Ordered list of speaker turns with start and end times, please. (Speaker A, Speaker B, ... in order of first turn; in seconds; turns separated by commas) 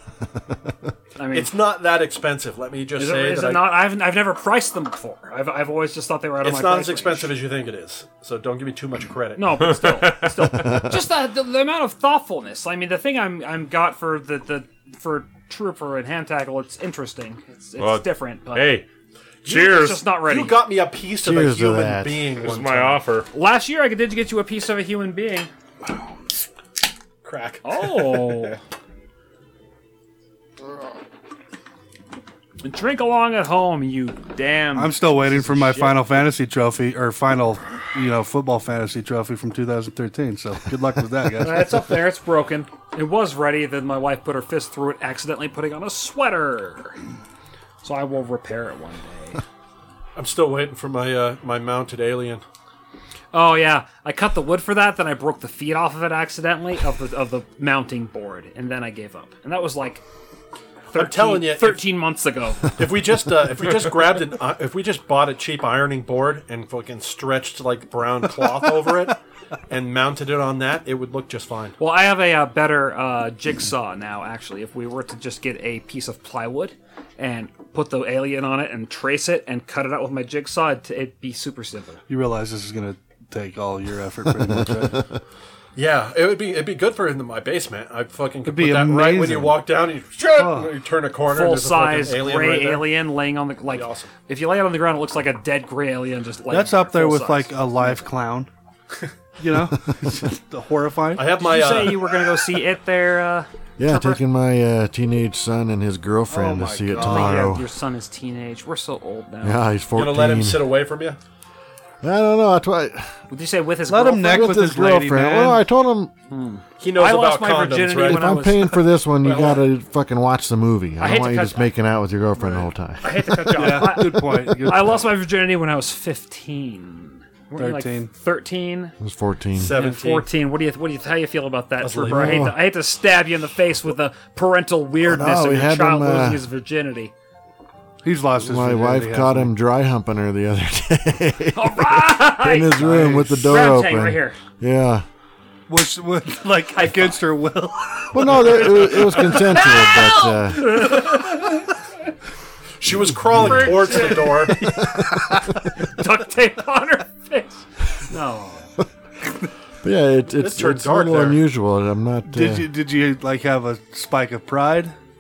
Speaker A: 1.2-1.5, Speaker B: 1.3-3.8, Speaker A: 3.0-7.3, Speaker B: 6.4-9.8, Speaker A: 9.4-18.8, Speaker C: 9.6-10.3, Speaker C: 17.8-18.9, Speaker B: 19.4-23.0, Speaker A: 19.5-20.6, Speaker C: 19.5-20.0, Speaker D: 21.2-22.3, Speaker C: 22.4-23.3, Speaker A: 23.3-25.5, Speaker B: 27.2-28.6, Speaker A: 27.6-28.6, Speaker A: 32.6-36.0, Speaker E: 34.8-41.8, Speaker A: 41.4-47.0, Speaker A: 47.8-49.4, Speaker B: 50.2-52.4, Speaker A: 53.3-60.0, Speaker B: 60.9-61.9, Speaker A: 60.9-62.8, Speaker B: 62.8-69.2, Speaker B: 69.7-71.8, Speaker A: 71.8-82.0, Speaker E: 82.1-85.0, Speaker B: 85.8-92.9, Speaker E: 88.5-89.6, Speaker E: 90.3-90.7, Speaker A: 91.3-97.5, Speaker B: 93.7-94.1, Speaker E: 96.5-98.5, Speaker E: 99.4-101.4, Speaker B: 101.2-102.3, Speaker A: 101.4-104.2, Speaker D: 103.8-107.7, Speaker E: 106.3-107.5, Speaker A: 107.0-109.6, Speaker D: 109.4-110.7, Speaker B: 110.0-111.2, Speaker D: 112.0-113.1, Speaker A: 113.3-114.7, Speaker E: 113.9-115.6, Speaker D: 114.2-116.1, Speaker A: 116.3-118.9, Speaker B: 116.8-118.5, Speaker D: 118.0-123.6, Speaker B: 119.2-119.7, Speaker A: 121.0-121.7, Speaker A: 123.0-129.0, Speaker E: 123.6-125.1, Speaker E: 127.5-128.1, Speaker D: 129.0-129.8, Speaker B: 129.5-130.3, Speaker A: 129.7-137.1, Speaker B: 131.8-132.5, Speaker D: 132.1-132.6, Speaker D: 135.0-136.4, Speaker E: 138.0-139.6, Speaker D: 138.4-145.1, Speaker A: 141.6-144.4, Speaker E: 142.8-143.5, Speaker E: 145.7-149.2, Speaker A: 146.8-147.1, Speaker D: 148.1-151.0, Speaker A: 149.1-151.7, Speaker B: 152.8-154.6, Speaker D: 153.2-153.9, Speaker A: 153.5-154.8, Speaker D: 154.5-155.6, Speaker A: 155.8-158.7, Speaker D: 159.8-162.7, Speaker B: 160.4-161.4, Speaker E: 162.3-165.0